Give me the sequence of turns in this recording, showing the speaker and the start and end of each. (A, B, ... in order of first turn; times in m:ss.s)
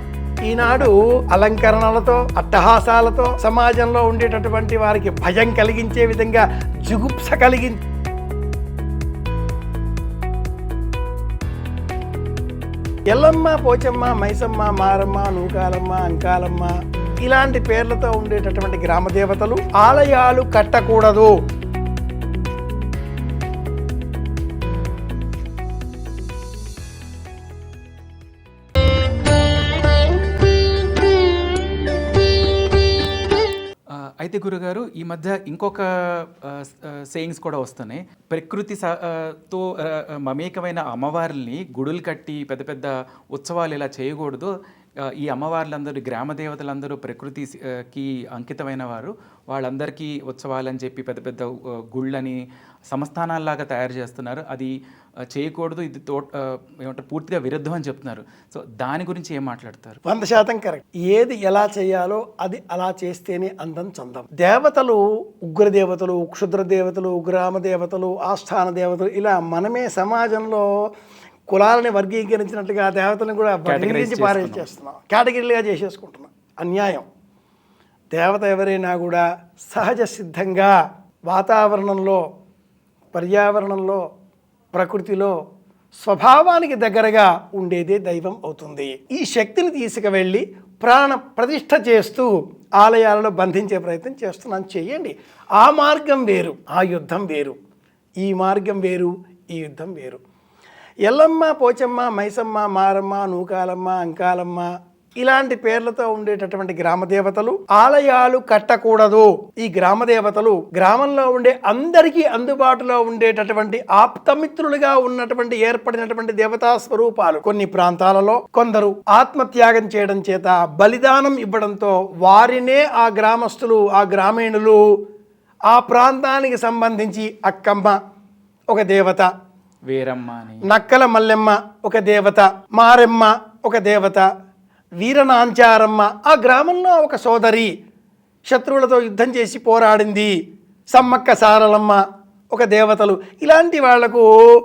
0:00.4-0:07.8 A
0:13.1-0:21.3 A
0:33.9-0:44.5 B
0:45.2-0:52.4 B
0:52.9-0:54.7 B
0:55.3-1:00.0 B
1:00.0-1:10.7 A
1:11.5-1:17.0 A
1:13.6-1:14.7 B
1:18.1-1:20.7 A
1:21.3-1:22.2 A
1:23.1-1:24.0 A
1:24.7-1:25.3 A
1:26.0-1:37.6 A
1:38.2-1:40.2 A
1:41.0-1:44.7 A
1:45.2-2:04.8 A
2:05.7-2:08.0 A
2:08.7-2:09.3 A
2:09.9-2:10.6 B
2:10.6-2:14.3 A
2:15.0-2:17.7 A
2:18.5-2:20.3 A
2:20.9-2:22.0 A
2:22.5-2:24.3 A